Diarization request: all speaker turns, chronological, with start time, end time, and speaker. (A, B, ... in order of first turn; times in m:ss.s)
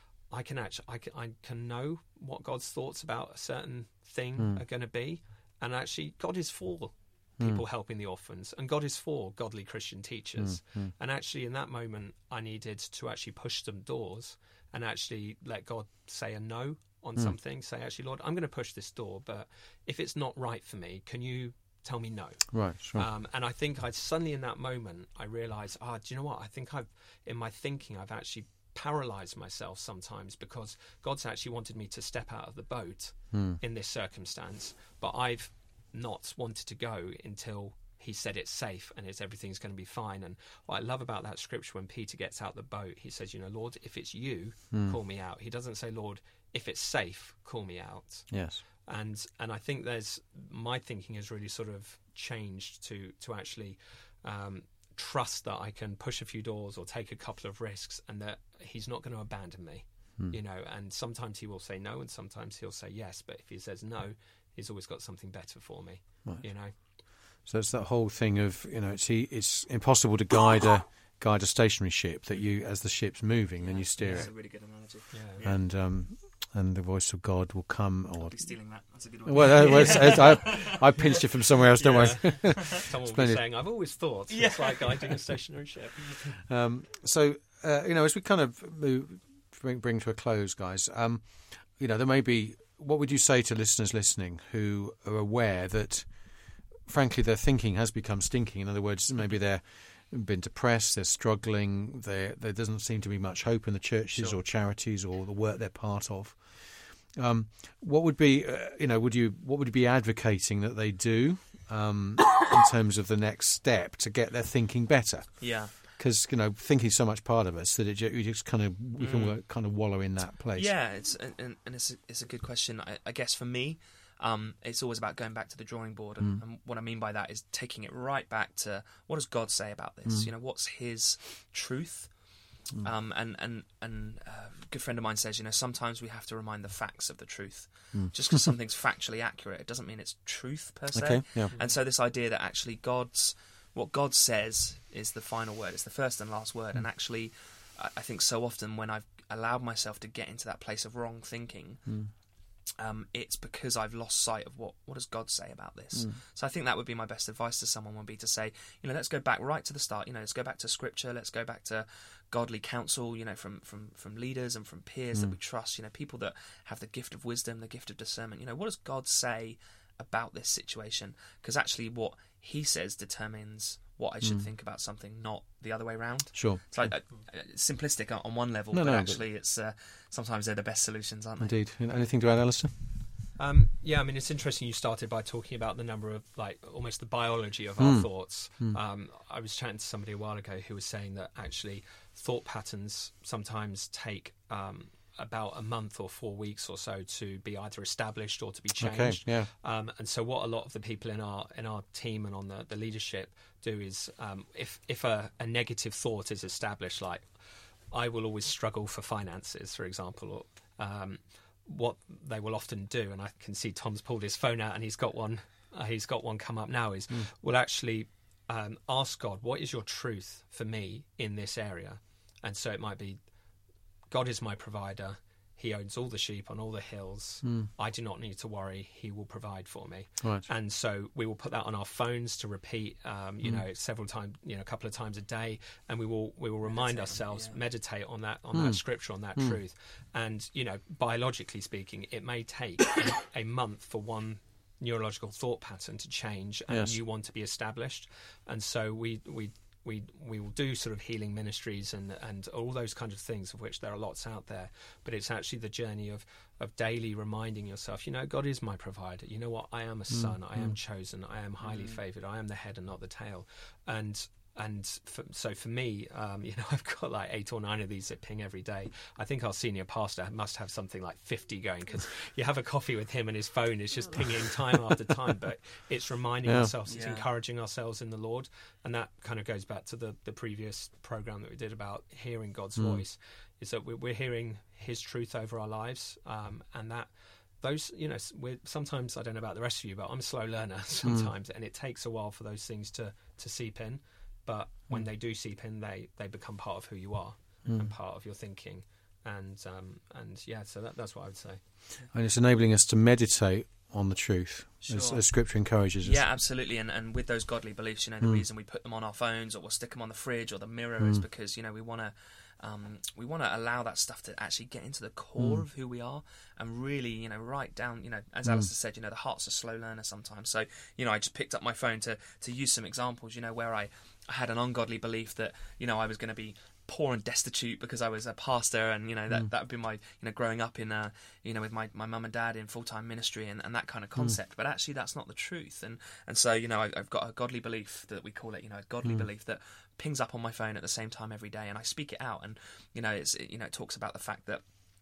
0:00.3-1:06.7 A
0:07.4-0:07.6 B
0:10.4-0:10.9 B
0:22.5-0:23.1 B
0:33.3-0:33.6 B
0:44.7-0:45.0 B
0:48.3-0:48.6 B
1:07.2-1:14.3 B
1:13.6-1:15.6 C
1:15.1-1:15.4 A
1:15.4-1:18.5 B
1:18.2-1:21.1 C
1:19.2-1:23.4 B
1:19.6-1:20.0 A
1:21.8-1:26.0 A
1:21.8-1:22.6 C
1:24.3-1:25.2 C
1:26.5-2:00.7 B
1:44.1-1:44.4 C
1:55.4-1:55.7 C
1:59.0-1:59.4 C
2:00.6-2:12.1 C
2:12.8-2:32.0 C
2:17.9-2:18.5 B
2:20.9-2:21.5 B
2:31.8-2:32.1 B
2:32.8-3:01.6 C
2:35.9-2:36.2 B
2:56.3-2:56.9 B
2:58.7-2:59.2 B
3:01.4-3:03.0 B
3:03.4-3:27.3 A
3:07.8-3:08.8 B
3:18.8-3:19.5 B
3:27.9-3:43.2 A
3:44.1-4:47.1 A
3:47.4-3:47.7 B
3:50.2-3:50.5 B
3:56.6-3:57.6 C
3:58.5-3:58.8 B
4:06.7-4:07.0 B
4:20.1-4:20.8 B
4:21.6-4:22.0 C
4:36.4-4:36.7 B
4:36.8-4:37.2 C
4:42.8-4:43.0 B
4:47.6-5:01.6 A
4:51.0-4:51.3 B
5:02.1-5:06.2 B
5:04.8-5:05.2 C
5:06.0-5:44.6 C
5:15.4-5:15.6 B